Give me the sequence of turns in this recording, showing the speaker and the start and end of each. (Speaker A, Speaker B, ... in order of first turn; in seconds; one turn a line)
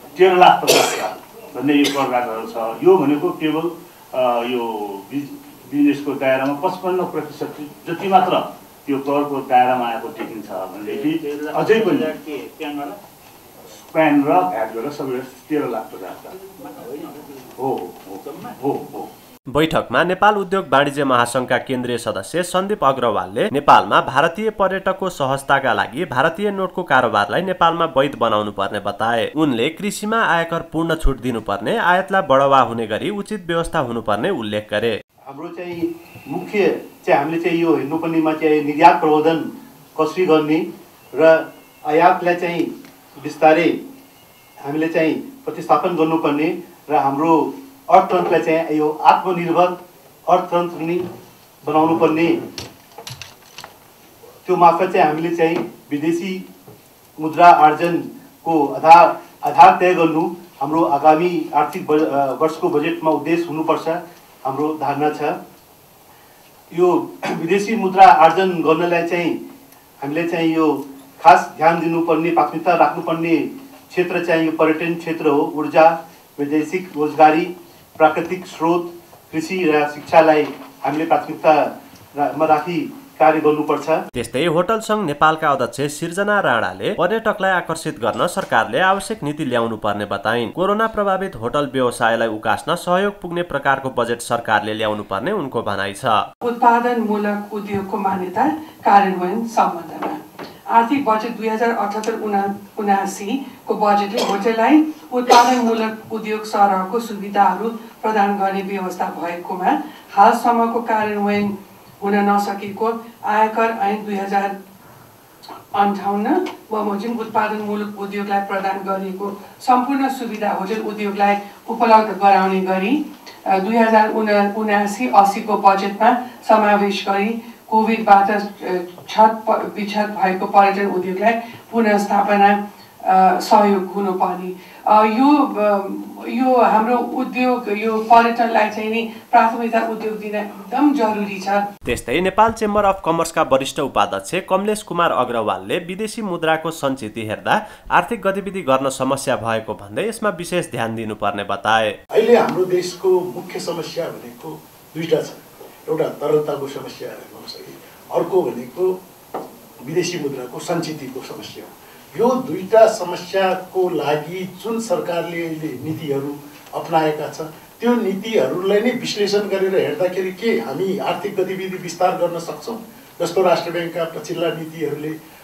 Speaker A: 0.1-12.9
Speaker A: 13.8-17.0
Speaker A: 17.6-19.1
Speaker B: 19.5-34.9
Speaker C: 35.2-43.8
Speaker C: 44.6-51.0
Speaker C: 51.6-52.4
Speaker C: 54.4-56.5
Speaker C: 57.2-65.4
Speaker C: 66.7-69.4
Speaker C: 70.0-84.0
Speaker B: 84.1-96.2
Speaker D: 96.4-114.5
Speaker D: 115.7-141.7
Speaker B: 141.8-151.9
Speaker E: 152.1-158.9
Speaker E: 159.8-175.1